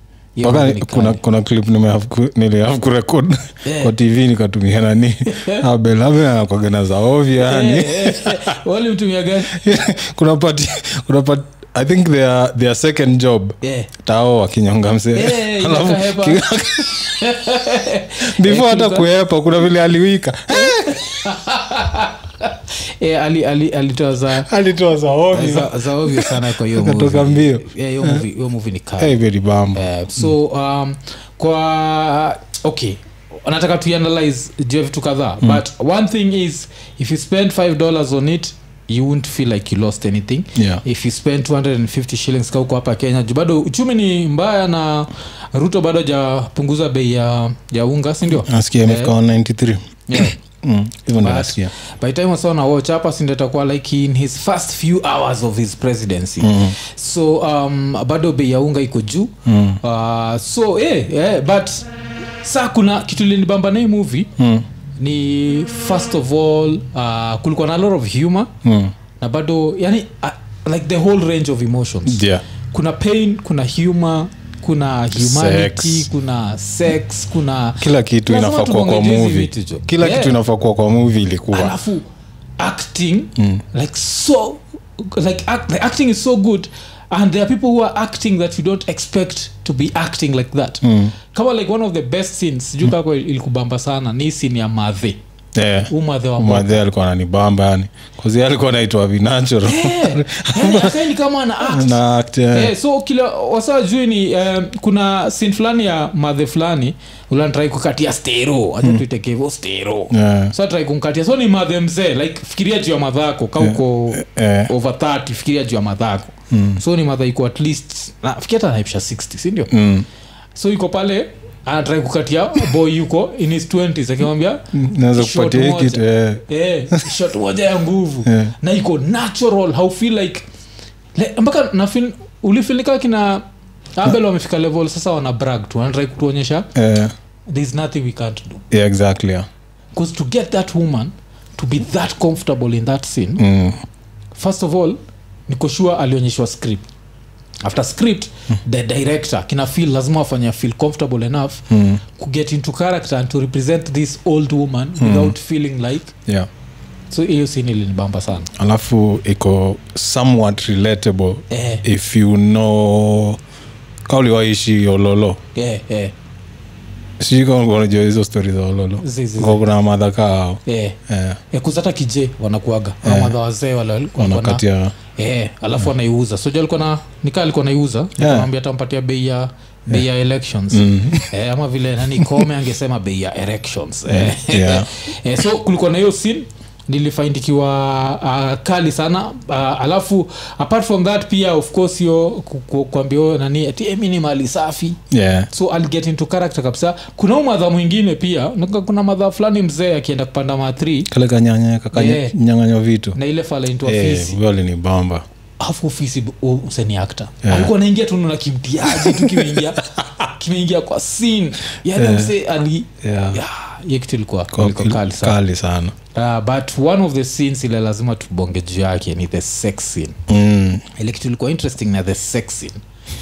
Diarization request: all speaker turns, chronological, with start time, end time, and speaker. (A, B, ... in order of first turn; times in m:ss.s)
0:00.4-0:01.2 A
0:00.4-0:08.6 B
0:03.6-0:03.9 A
0:05.3-0:05.7 A
0:07.4-0:09.7 A
0:09.5-0:17.2 B
0:13.6-0:13.9 A
0:15.1-0:19.1 A
0:18.3-0:21.2 B
0:20.5-0:24.5 A
0:24.4-0:28.2 B
0:25.3-0:29.2 A
0:29.0-0:30.3 B
0:29.8-0:49.1 A
0:40.6-0:40.8 B
0:48.4-0:51.7 B
0:50.1-0:50.4 A
0:51.2-1:04.3 A
0:56.4-0:56.8 B
0:59.5-0:59.8 B
1:04.4-1:04.7 B
1:05.0-1:08.5 A
1:08.6-1:08.9 B
1:09.2-1:20.4 A
1:12.1-1:12.4 B
1:15.2-1:16.1 B
1:17.8-1:21.8 B
1:21.5-1:22.0 A
1:22.6-1:35.2 A
1:23.4-1:23.6 B
1:30.8-1:31.2 B
1:35.6-1:41.0 B
1:35.9-1:36.8 A
1:39.6-1:42.0 A
1:41.6-1:42.7 B
1:42.5-1:59.7 A
1:50.1-1:50.5 B
1:53.6-1:54.7 B
1:56.5-1:56.8 B
1:59.7-2:00.1 B
2:00.6-2:10.5 A
2:04.7-2:07.1 B
2:08.3-2:08.5 B
2:11.2-2:16.7 A
2:16.8-2:17.1 B
2:17.5-2:18.6 A
2:18.7-2:19.5 B
2:19.9-2:23.5 A
2:23.4-2:23.8 B
2:24.3-2:26.9 A
2:27.6-2:36.2 A
2:31.7-2:32.0 B
2:35.0-2:35.4 B
2:37.1-2:38.5 A
2:38.6-2:43.4 B
2:41.5-2:41.8 A
2:44.1-2:45.4 B
2:45.6-2:46.1 A
2:47.2-2:51.4 B
2:49.0-2:49.6 A
2:50.7-2:51.0 A
2:51.5-2:54.6 A
2:53.0-2:53.4 B
2:54.2-2:54.9 B
2:55.2-3:15.0 A
2:58.2-2:58.5 B
3:00.7-3:01.3 B
3:02.2-3:02.4 B
3:04.1-3:04.9 B
3:15.1-3:15.5 B
3:15.5-3:21.1 A
3:21.1-3:23.2 B
3:21.9-3:22.4 A
3:23.2-3:24.4 A
3:23.8-3:25.3 B
3:25.6-3:35.4 A
3:27.4-3:27.7 B
3:28.9-3:29.7 B
3:32.0-3:32.3 B
3:33.0-3:33.4 B
3:34.5-3:36.0 B
3:36.1-3:40.2 A
3:40.3-3:40.8 B
3:41.0-3:42.8 A